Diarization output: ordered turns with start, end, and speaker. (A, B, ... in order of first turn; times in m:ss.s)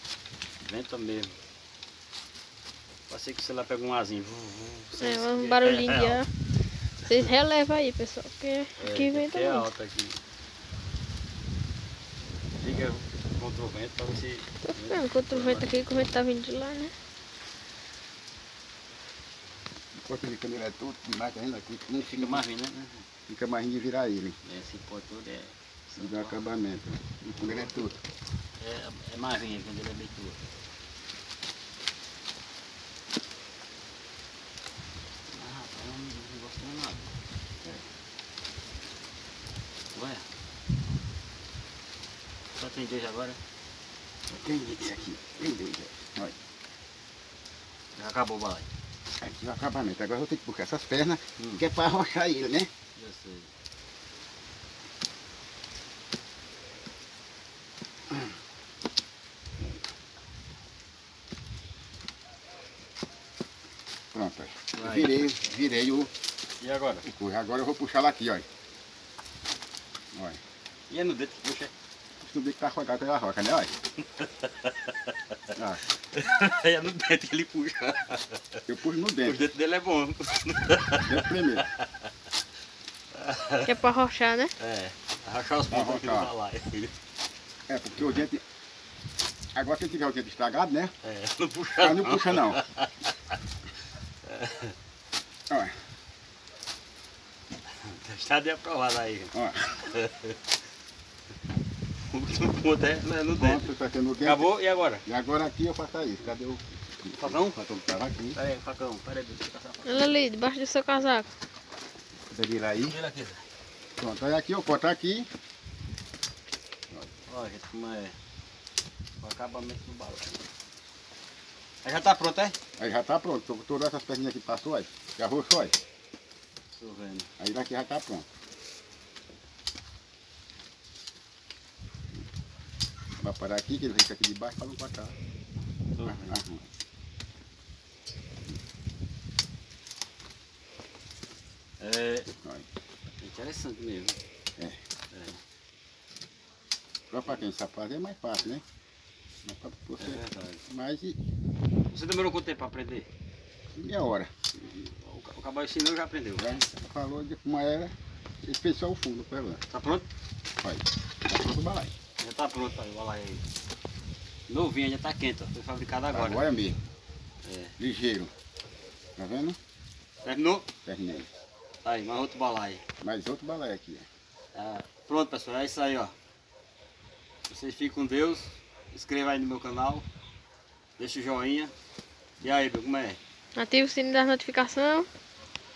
0:00.6-0:01.4 A
0:03.1-0:06.2 A
0:05.0-0:06.3 B
0:07.0-0:09.7 B
0:08.8-0:10.2 A
0:12.6-0:16.1 A
0:14.9-0:16.9 B
0:19.9-0:22.4 C
0:22.0-0:23.1 A
0:23.3-0:24.4 C
0:24.4-0:26.4 A
0:26.0-0:28.0 C
0:27.4-0:27.9 A
0:28.6-0:30.4 A
0:35.3-0:37.1 A
0:39.9-0:40.2 A
0:42.6-0:43.4 A
0:44.3-0:46.4 C
0:48.0-0:48.7 A
0:49.2-0:52.7 C
0:51.4-0:51.6 A
0:53.0-0:53.5 A
1:04.1-1:06.1 C
1:04.8-1:05.2 A
1:06.6-1:07.0 A
1:07.0-1:08.5 C
1:10.1-1:10.4 C
1:10.9-1:11.7 A
1:12.2-1:13.7 C
1:14.0-1:15.4 A
1:15.6-1:15.8 C
1:16.0-1:18.6 A
1:18.7-1:19.4 C
1:19.2-1:22.1 A
1:21.0-1:21.7 C
1:23.1-1:23.7 A
1:23.6-1:24.5 B
1:24.6-1:26.9 A
1:25.7-1:26.3 C
1:27.7-1:28.4 C
1:29.6-1:30.9 C
1:31.0-1:32.9 A
1:31.8-1:32.6 C
1:34.2-1:34.8 A
1:35.5-1:35.8 C
1:37.8-1:40.4 A
1:39.3-1:39.9 C
1:42.1-1:45.0 A
1:43.4-1:44.5 C
1:45.1-1:48.4 C
1:47.2-1:47.6 A
1:48.3-1:50.2 A
1:49.8-1:51.3 B
1:52.3-1:53.0 C
1:52.8-1:53.4 A
1:54.0-1:55.3 C
1:57.3-1:58.2 A
1:59.2-2:00.5 A
2:01.8-2:02.6 A
2:02.8-2:05.8 C
2:06.7-2:07.3 A
2:07.4-2:08.3 C
2:13.2-2:15.2 C
2:15.9-2:16.4 A
2:16.0-2:16.7 C
2:21.8-2:22.3 A
2:22.4-2:22.7 C
2:23.2-2:24.2 A
2:25.1-2:25.4 A
2:27.1-2:28.6 C
2:29.4-2:31.2 C
2:30.0-2:30.6 A
2:31.9-2:33.1 A
2:33.8-2:34.3 C
2:34.6-2:36.5 A
2:36.4-2:39.6 C
2:39.7-2:40.1 A
2:40.6-2:41.9 C
2:42.2-2:43.4 A
2:44.5-2:46.5 A
2:46.1-2:46.8 C
2:47.4-2:47.8 A
2:47.8-2:48.3 C
2:49.2-2:49.6 C
2:50.2-2:50.7 A
2:50.9-2:51.3 C
2:51.8-2:52.8 A
2:53.0-2:54.1 C
2:54.5-2:56.1 A
2:57.5-3:00.1 A
3:01.0-3:01.7 A
3:02.4-3:03.2 A
3:03.6-3:05.1 B